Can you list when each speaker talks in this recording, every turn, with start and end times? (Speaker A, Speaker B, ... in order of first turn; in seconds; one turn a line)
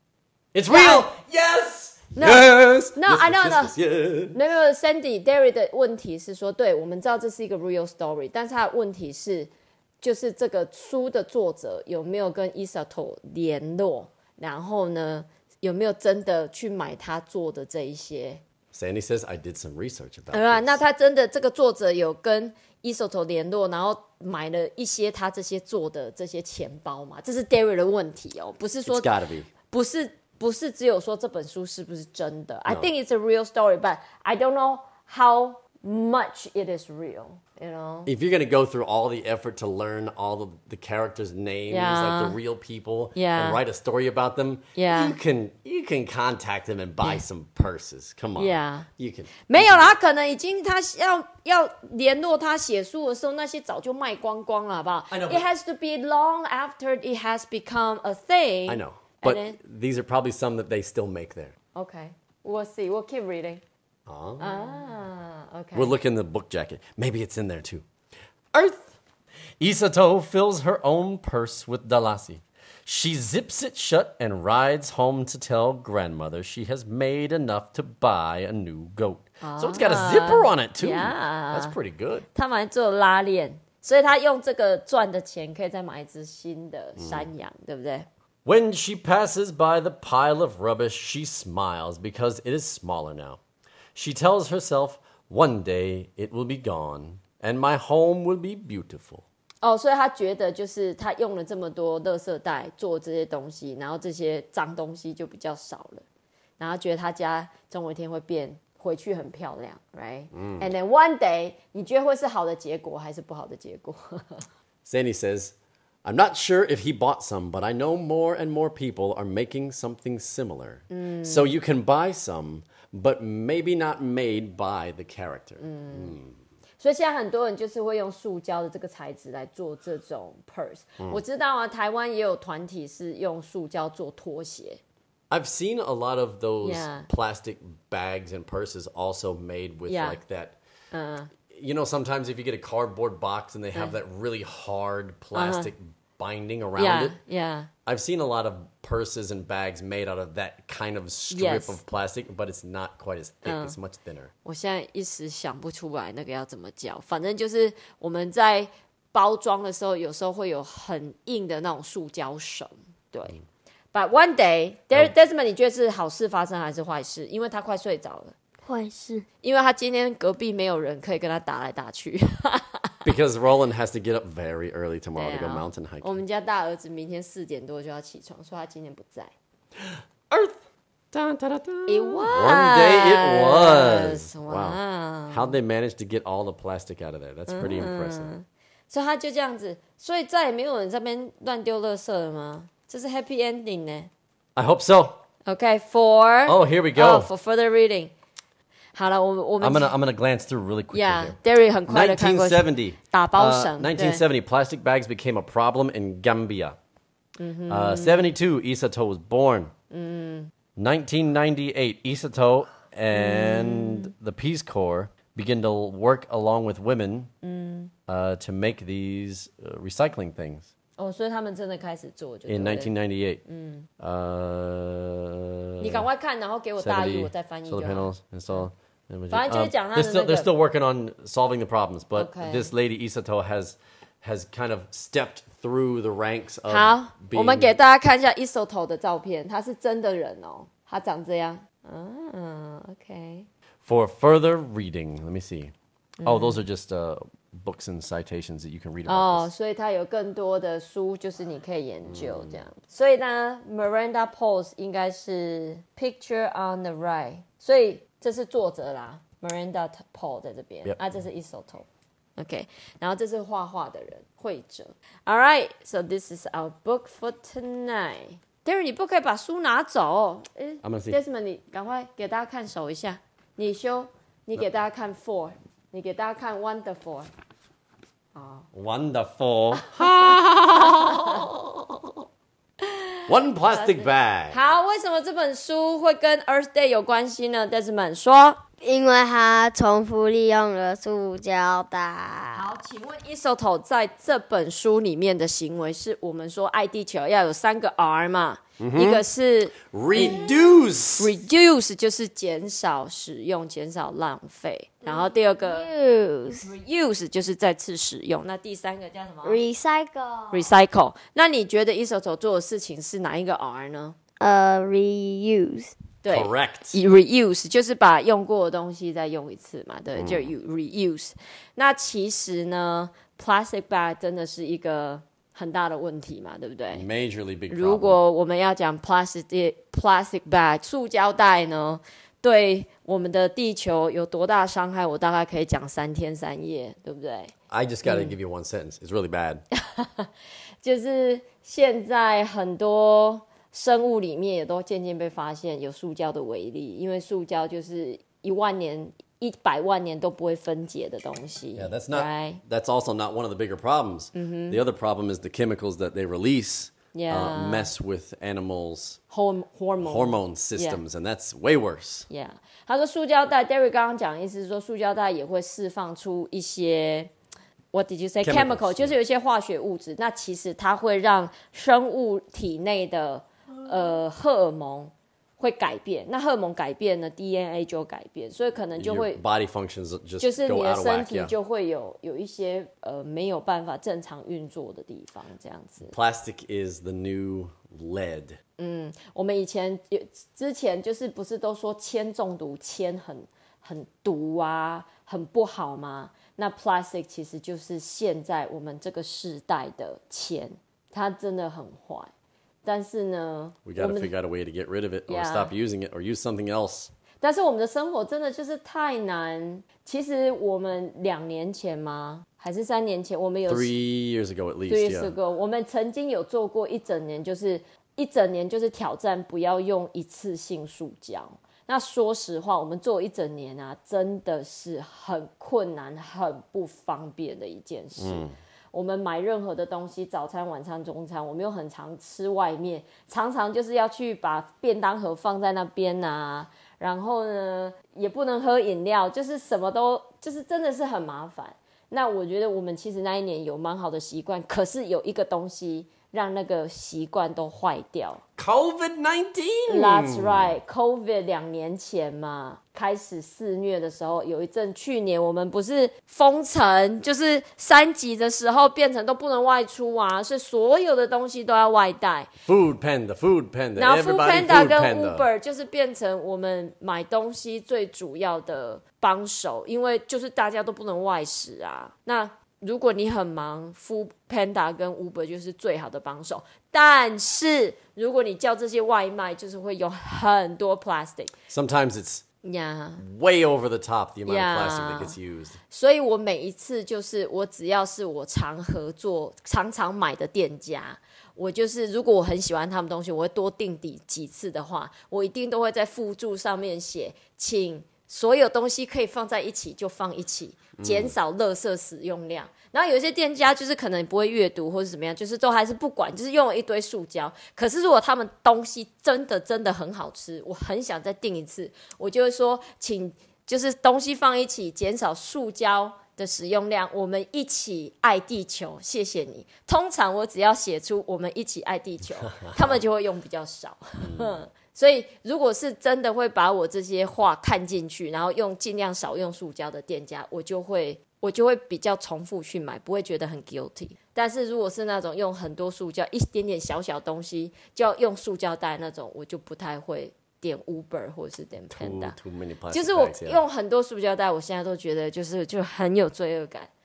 Speaker A: 0.5-4.4
Speaker B: 0.7-1.1
Speaker B: 2.2-3.8
Speaker B: 4.3-18.4
Speaker A: 18.7-20.8
Speaker B: 20.3-29.1
Speaker A: 28.9-29.5
Speaker B: 29.7-38.1
Speaker A: 38.1-49.9
Speaker B: 41.7-42.4
Speaker B: 43.1-43.6
Speaker B: 44.8-45.2
Speaker B: 48.4-48.9
Speaker B: 49.5-59.6
Speaker A: 55.1-55.5
Speaker A: 58.7-61.5
Speaker B: 61.7-63.6
Speaker A: 64.1-64.5
Speaker B: 64.4-66.0
Speaker A: 65.7-67.8
Speaker A: 68.5-69.0
Speaker A: 69.6-82.3
Speaker B: 79.4-81.8
Speaker B: 82.3-88.1
Speaker A: 87.0-87.3
Speaker A: 88.5-93.4
Speaker A: 94.0-99.2
Speaker B: 99.6-106.0
Speaker B: 106.6-114.5
Speaker A: 110.3-110.7
Speaker A: 114.8-126.4
Speaker B: 120.9-121.5
Speaker B: 125.6-126.2
Speaker B: 126.8-134.8
Speaker A: 135.3-140.6
Speaker B: 136.6-137.1
Speaker B: 139.9-140.2
Speaker B: 140.9-141.3
Speaker A: 141.5-147.2
Speaker B: 145.3-145.7
Speaker B: 146.8-147.7
Speaker A: 147.8-154.3
Speaker B: 151.3-151.8
Speaker B: 153.4-153.8
Speaker B: 154.4-163.4
Speaker B: 163.9-168.3
Speaker C: 168.6-169.3
Speaker B: 169.4-173.0
Speaker A: 173.0-176.1
Speaker B: 175.2-179.3
Speaker A: 179.8-180.6
Speaker A: 181.1-188.3
Speaker B: 181.9-185.6
Speaker B: 187.5-194.1
Speaker A: 194.6-195.2
Speaker B: 195.5-198.1
Speaker A: 196.5-197.3
Speaker B: 198.9-199.9
Speaker A: 199.6-206.8
Speaker B: 200.9-204.2
Speaker B: 207.4-208.3
Speaker A: 207.7-209.7
Speaker B: 209.9-210.5
Speaker A: 210.8-217.3
Speaker B: 213.1-214.1
Speaker B: 217.4-217.9
Speaker A: 218.1-220.7
Speaker B: 221.0-222.9
Speaker A: 222.5-223.4
Speaker B: 223.5-223.9
Speaker A: 224.0-226.1
Speaker B: 225.8-228.7
Speaker A: 226.8-237.7
Speaker B: 229.3-230.5
Speaker B: 232.2-232.7
Speaker B: 236.7-243.5
Speaker A: 243.8-249.5
Speaker B: 246.2-246.6
Speaker B: 249.1-277.3
Speaker A: 252.1-252.6
Speaker A: 270.8-271.2
Speaker B: 278.4-278.7
Speaker A: 278.7-282.2
Speaker B: 279.8-281.4
Speaker B: 282.8-288.6
Speaker A: 283.3-284.6
Speaker C: 288.8-292.7
Speaker B: 292.5-300.5
Speaker A: 298.8-299.2
Speaker A: 299.8-301.4
Speaker B: 301.2-305.9
Speaker C: 305.1-306.7
Speaker B: 306.6-309.6
Speaker C: 309.4-310.7
Speaker B: 310.5-314.2
Speaker C: 314.4-315.9
Speaker B: 316.2-327.1
Speaker A: 316.3-317.0
Speaker A: 320.2-320.5
Speaker A: 326.9-328.2
Speaker B: 327.7-338.4
Speaker A: 337.7-339.6
Speaker B: 339.7-340.3
Speaker B: 340.8-352.6
Speaker A: 351.8-359.2
Speaker B: 354.4-354.8
Speaker B: 357.1-357.9
Speaker B: 359.3-361.0
Speaker A: 360.0-362.3
Speaker B: 362.3-367.3
Speaker B: 367.9-379.4
Speaker A: 368.4-369.1
Speaker A: 379.0-381.5
Speaker B: 380.4-386.1
Speaker A: 386.1-388.6
Speaker B: 388.8-402.3
Speaker B: 402.8-404.3
Speaker A: 403.9-407.1
Speaker B: 405.3-405.7
Speaker B: 407.4-413.9
Speaker A: 413.7-415.3
Speaker B: 414.9-448.4
Speaker A: 428.2-428.6
Speaker A: 448.6-450.7
Speaker B: 449.9-462.5
Speaker A: 462.7-465.5
Speaker B: 464.0-481.6
Speaker A: 481.7-482.4
Speaker B: 482.6-483.2
Speaker A: 483.2-485.8
Speaker B: 484.5-485.4
Speaker B: 485.9-542.4
Speaker A: 501.0-501.4
Speaker A: 522.5-523.0
Speaker A: 524.2-524.6
Speaker A: 541.9-543.6
Speaker B: 542.9-546.9